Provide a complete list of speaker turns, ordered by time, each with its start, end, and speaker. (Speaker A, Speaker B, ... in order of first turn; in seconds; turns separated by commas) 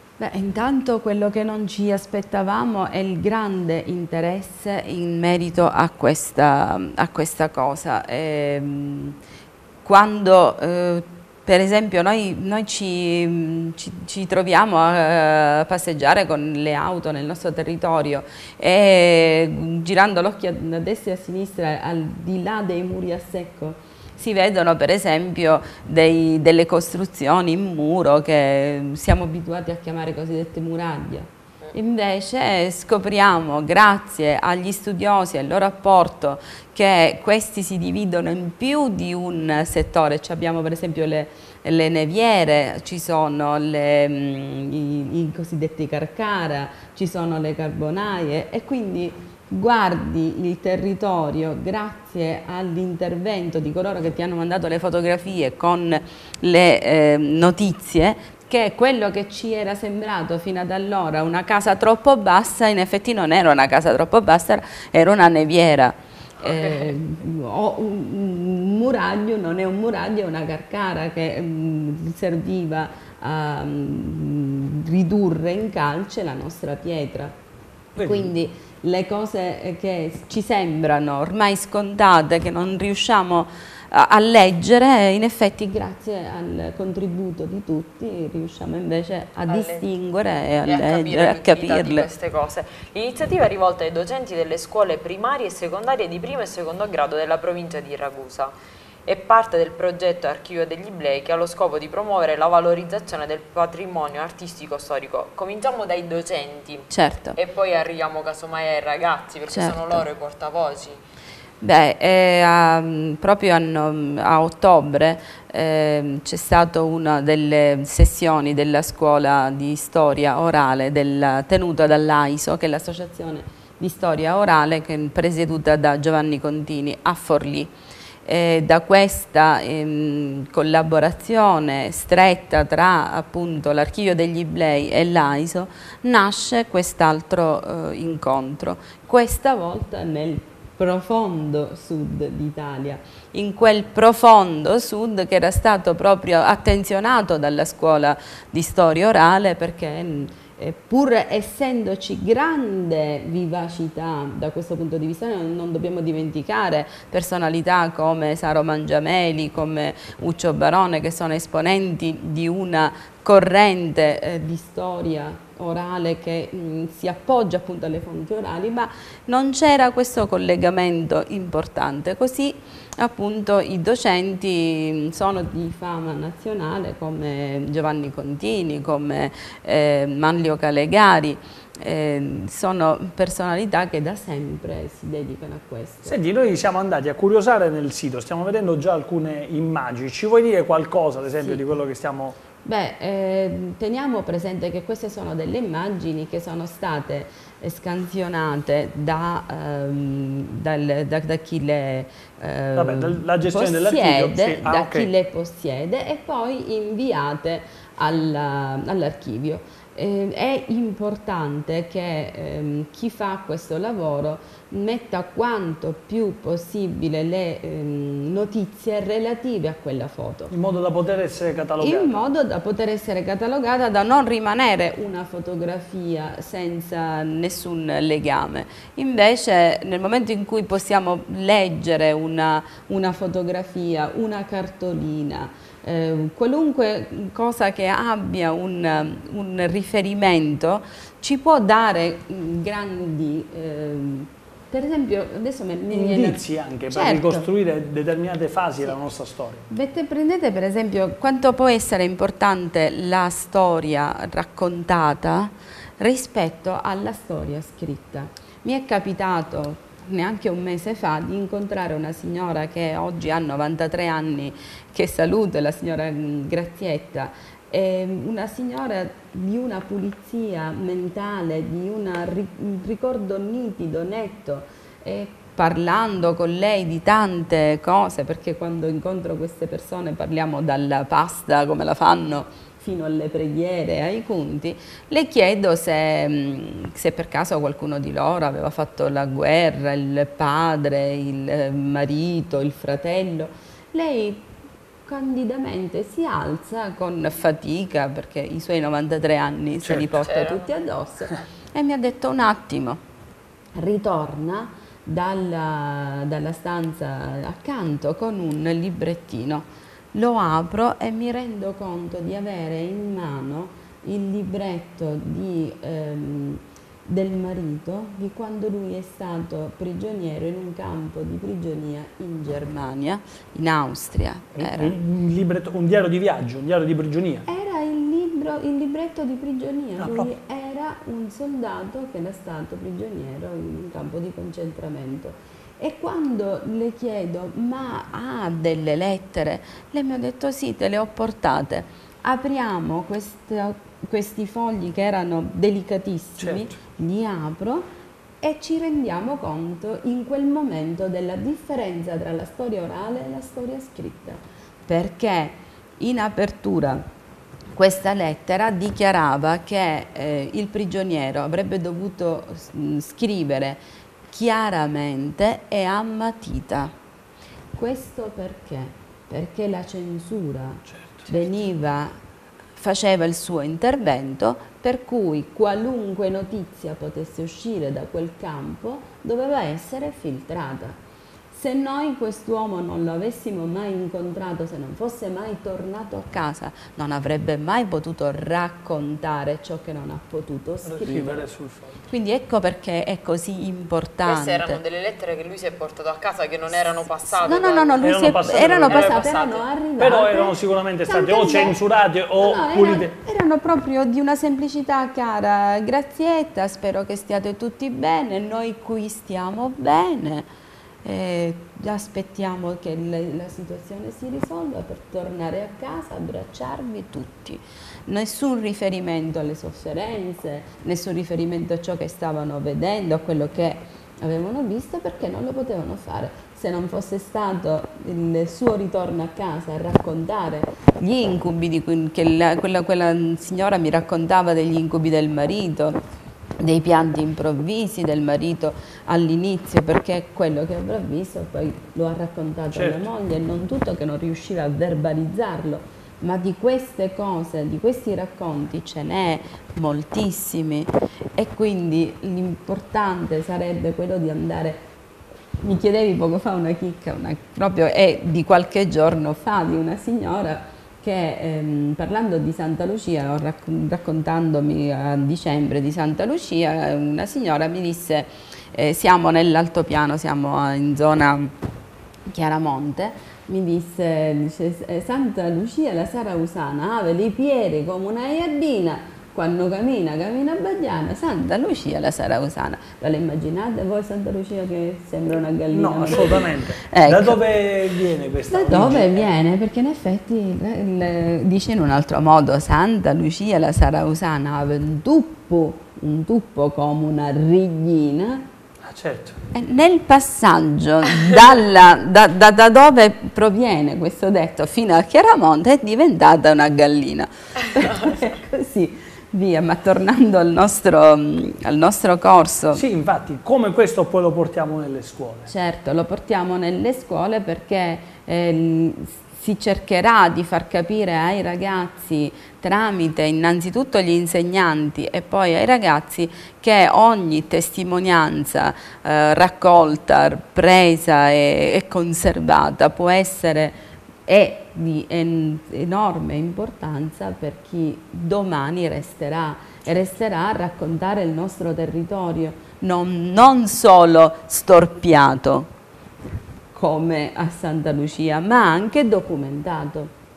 Speaker A: 0.2-9.2, Speaker A: 9.8-77.3, Speaker B: 66.4-66.9, Speaker C: 77.9-78.3, Speaker A: 78.0-92.1, Speaker B: 89.4-89.9, Speaker B: 90.6-98.5, Speaker B: 99.0-111.0, Speaker A: 106.9-107.4, Speaker A: 109.5-110.0, Speaker A: 111.6-127.7, Speaker A: 128.2-186.2, Speaker C: 186.0-192.4, Speaker A: 192.6-220.5, Speaker C: 202.7-205.1, Speaker C: 220.5-222.3, Speaker A: 221.8-247.5, Speaker C: 245.9-249.7, Speaker A: 249.7-294.5, Speaker A: 295.0-303.0, Speaker C: 299.8-300.2, Speaker B: 300.2-300.7, Speaker A: 303.8-324.9, Speaker C: 324.5-327.5, Speaker A: 327.5-347.9, Speaker C: 330.0-330.3, Speaker C: 346.4-346.8, Speaker A: 348.4-357.0, Speaker A: 357.7-366.9, Speaker A: 367.7-372.1, Speaker C: 370.9-371.4, Speaker A: 372.8-380.9, Speaker A: 381.5-391.4, Speaker C: 390.8-392.1, Speaker A: 392.1-394.8, Speaker B: 394.2-399.6, Speaker A: 396.7-401.8, Speaker C: 398.0-399.1, Speaker C: 400.0-403.1, Speaker A: 402.4-410.5, Speaker A: 411.0-436.0, Speaker A: 436.6-454.9, Speaker C: 442.7-443.1, Speaker A: 455.6-471.5, Speaker A: 472.3-487.4, Speaker C: 485.7-489.3, Speaker A: 488.5-498.4, Speaker C: 498.8-499.4, Speaker A: 499.5-512.8, Speaker C: 512.7-515.5, Speaker A: 515.5-545.7, Speaker A: 546.7-550.1